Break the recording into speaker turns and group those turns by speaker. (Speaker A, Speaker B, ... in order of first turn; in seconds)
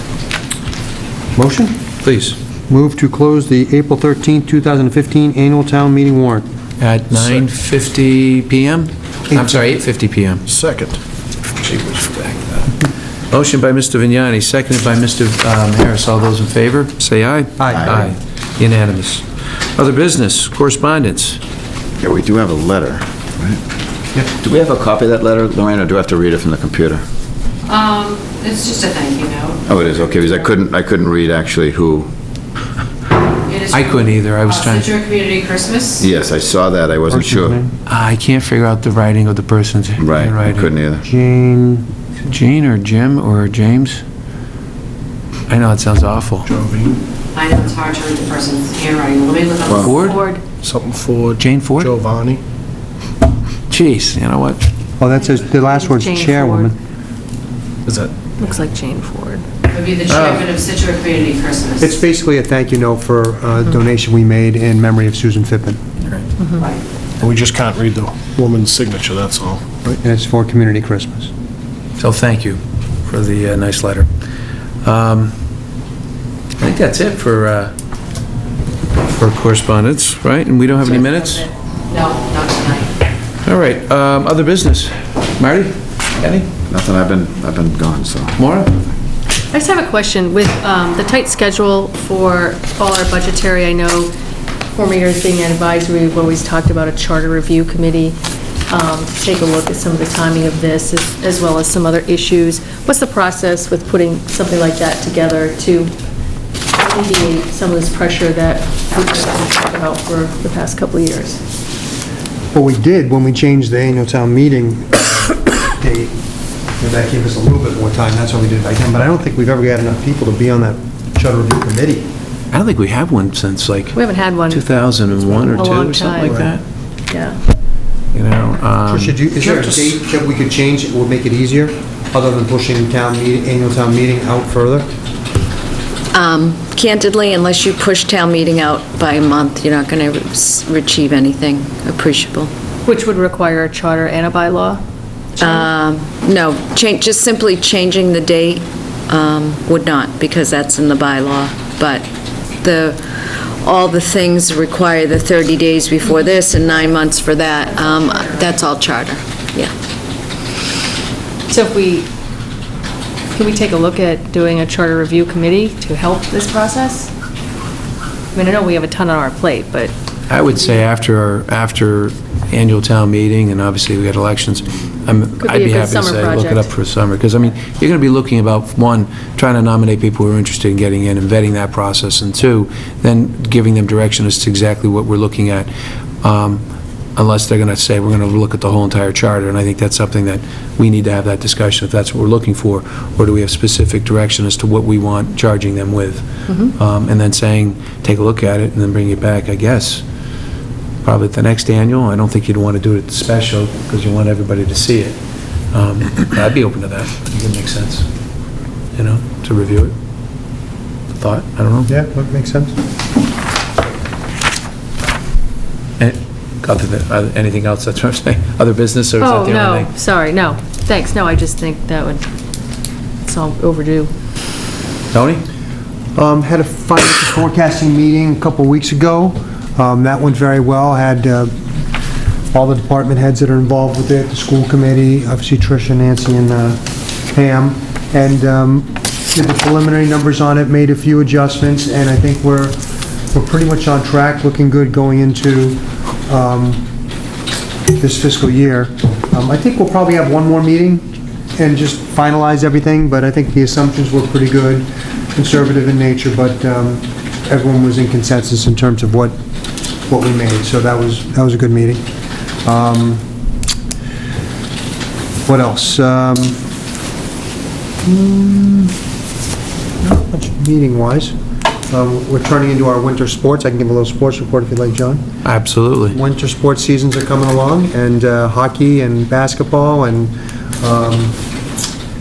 Speaker A: 1.3-1.8, 2.7-6.5, 9.3-9.6, 17.6-17.9, 37.1-37.7, 41.0-41.9, 55.0-56.7, 61.8-65.8, 69.9-71.3, 112.5-116.1, 116.8-122.1, 125.1-126.5, 128.9-134.9, 211.9-212.8, 226.1-231.5, 232.5-236.8, 237.3-242.8, 243.3-246.8, 247.9-259.4, 260.1-262.0, 262.6-263.2, 265.4-266.6, 268.0-268.9, 270.0-271.3, 271.9-275.2, 276.1-281.4
Speaker B: 2.0-2.4, 6.8-10.4, 11.6-12.7, 13.3-19.2, 19.8-21.4, 33.7-35.0, 37.9-40.7, 42.3-44.0, 45.5-46.5, 49.8-50.2, 51.4-51.9, 53.7-54.7, 60.1-60.5, 72.0-74.1, 74.8-75.3, 76.6-77.7, 79.1-81.5, 83.4-86.5, 88.4-88.7, 122.5-126.6, 128.1-129.9, 170.3-185.7, 186.2-186.6, 187.2-200.0, 201.0-205.2, 205.7-208.1, 208.9-209.9, 211.1-211.9, 216.0-219.9, 225.1-225.4, 275.4-276.2
Speaker C: 7.1-7.4, 10.5-11.0, 46.5-47.0, 50.5-52.4, 57.9-58.3, 67.2-69.9
Speaker D: 17.8-18.0, 22.0-23.6, 24.4-27.0, 29.7-32.1, 36.0-37.6, 40.0-41.0, 49.6-49.9, 86.7-88.4
Speaker E: 27.7-29.6, 34.9-36.0, 47.4-50.0, 59.7-61.8, 81.9-82.9
Speaker F: 50.0-50.4, 55.3-56.7, 58.4-59.4, 66.4-66.7, 89.5-94.1, 94.7-98.2, 98.7-105.9, 106.7-111.4, 123.9-124.7, 125.5-126.4, 127.1-127.4, 142.8-144.8, 145.4-145.7, 157.6-158.5, 161.5-162.1, 163.3-167.1, 168.3-169.9, 175.4-176.7, 219.2-222.2, 223.2-224.1
Speaker G: 136.1-142.5, 145.4-152.1, 152.6-159.7